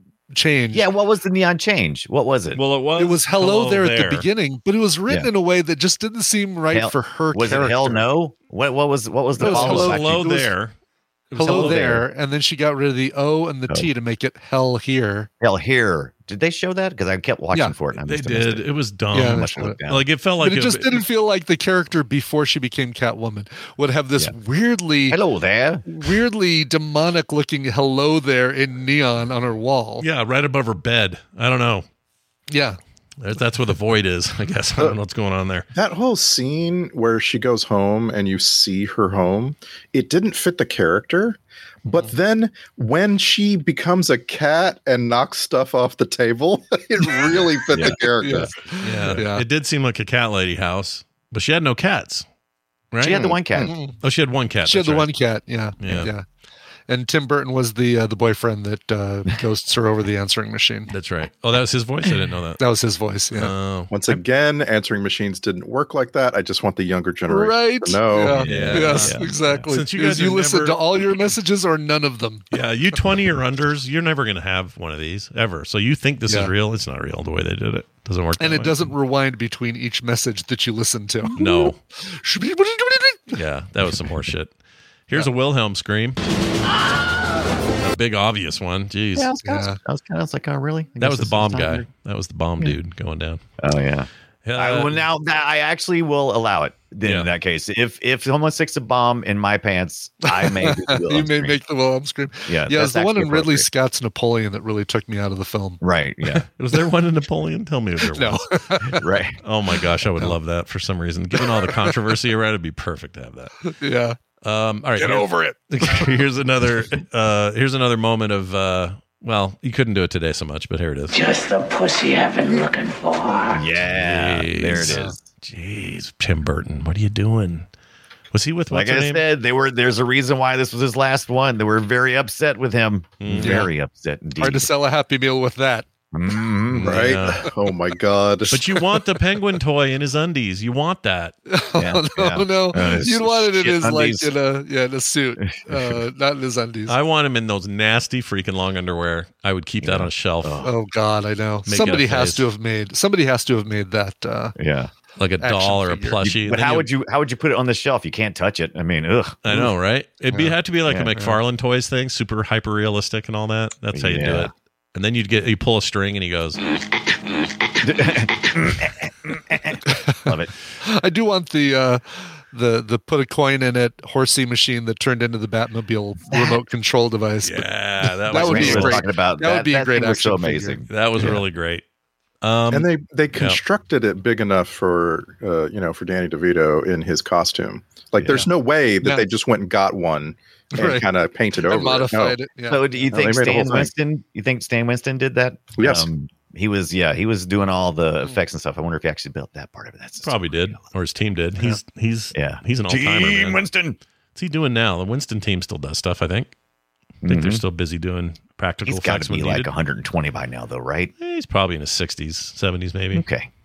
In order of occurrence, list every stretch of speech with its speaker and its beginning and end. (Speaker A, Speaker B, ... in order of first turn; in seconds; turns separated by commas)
Speaker A: 0.3-0.8, Speaker B: 0.7-2.6, Speaker C: 2.5-4.2, Speaker A: 3.0-8.1, Speaker B: 6.7-10.5, Speaker A: 9.4-10.4, Speaker C: 9.4-10.7, Speaker C: 11.3-11.9, Speaker A: 11.3-15.3, Speaker B: 11.4-12.0, Speaker B: 15.4-20.0, Speaker C: 18.0-21.0, Speaker A: 19.1-19.8, Speaker A: 20.4-25.2, Speaker B: 25.1-25.9, Speaker A: 25.9-30.1, Speaker C: 30.0-31.8, Speaker A: 32.5-32.8, Speaker C: 33.2-35.6, Speaker D: 35.7-48.5, Speaker B: 47.7-48.0, Speaker A: 48.2-49.4, Speaker C: 48.8-52.2, Speaker C: 52.9-55.1, Speaker B: 53.0-53.7, Speaker A: 53.6-53.9, Speaker A: 54.6-56.2, Speaker C: 55.8-56.1, Speaker A: 56.9-60.9, Speaker C: 60.9-62.6, Speaker A: 62.6-63.5, Speaker C: 63.3-64.2, Speaker D: 63.9-68.5, Speaker A: 67.3-72.5, Speaker B: 68.4-69.6, Speaker C: 68.5-71.2, Speaker C: 72.5-78.9, Speaker A: 78.4-83.4, Speaker C: 81.3-81.8, Speaker C: 83.3-84.5, Speaker C: 85.1-86.2, Speaker C: 87.8-89.3, Speaker B: 89.2-91.8, Speaker A: 89.4-89.8, Speaker C: 91.0-93.4, Speaker B: 93.6-101.6, Speaker C: 94.4-95.0, Speaker C: 97.0-97.3, Speaker A: 100.3-105.8, Speaker B: 102.5-103.7, Speaker B: 105.8-106.4, Speaker C: 106.5-108.6, Speaker A: 108.1-109.0, Speaker B: 108.9-109.4, Speaker C: 109.4-113.6, Speaker A: 111.4-111.9, Speaker A: 113.7-114.2, Speaker C: 114.4-115.3, Speaker A: 115.0-116.1, Speaker C: 115.8-121.1, Speaker E: 121.1-123.7, Speaker B: 123.5-125.2, Speaker C: 123.8-127.7, Speaker A: 124.9-125.1, Speaker C: 128.3-129.2, Speaker B: 128.7-134.7, Speaker C: 133.2-133.7, Speaker A: 133.4-133.7, Speaker A: 134.4-135.9, Speaker B: 136.1-137.1, Speaker C: 136.7-137.5, Speaker D: 136.8-138.8, Speaker C: 138.5-141.3, Speaker A: 141.5-146.9, Speaker B: 141.8-144.3, Speaker B: 145.4-146.0, Speaker C: 146.9-150.6, Speaker B: 149.8-150.7, Speaker A: 150.6-154.5, Speaker C: 151.7-152.5, Speaker B: 154.6-154.9, Speaker C: 155.2-156.9, Speaker A: 155.4-156.2, Speaker B: 156.2-159.7, Speaker C: 159.4-166.6, Speaker B: 160.9-161.1, Speaker B: 163.9-164.5, Speaker B: 167.8-170.5, Speaker A: 169.8-170.3, Speaker A: 170.8-180.8, Speaker B: 176.3-176.6, Speaker C: 177.4-179.0, Speaker B: 178.3-181.4, Speaker C: 180.9-181.8, Speaker C: 182.4-183.6, Speaker D: 182.7-192.4, Speaker B: 188.2-188.4, Speaker A: 190.7-191.1, Speaker A: 191.6-193.1, Speaker B: 192.7-200.8, Speaker D: 193.1-193.9, Speaker D: 195.8-196.1, Speaker C: 200.2-203.6, Speaker B: 202.3-204.0, Speaker C: 204.3-206.5, Speaker B: 207.2-207.6, Speaker C: 207.2-209.7, Speaker B: 208.8-211.1, Speaker C: 211.2-213.2, Speaker B: 213.1-213.5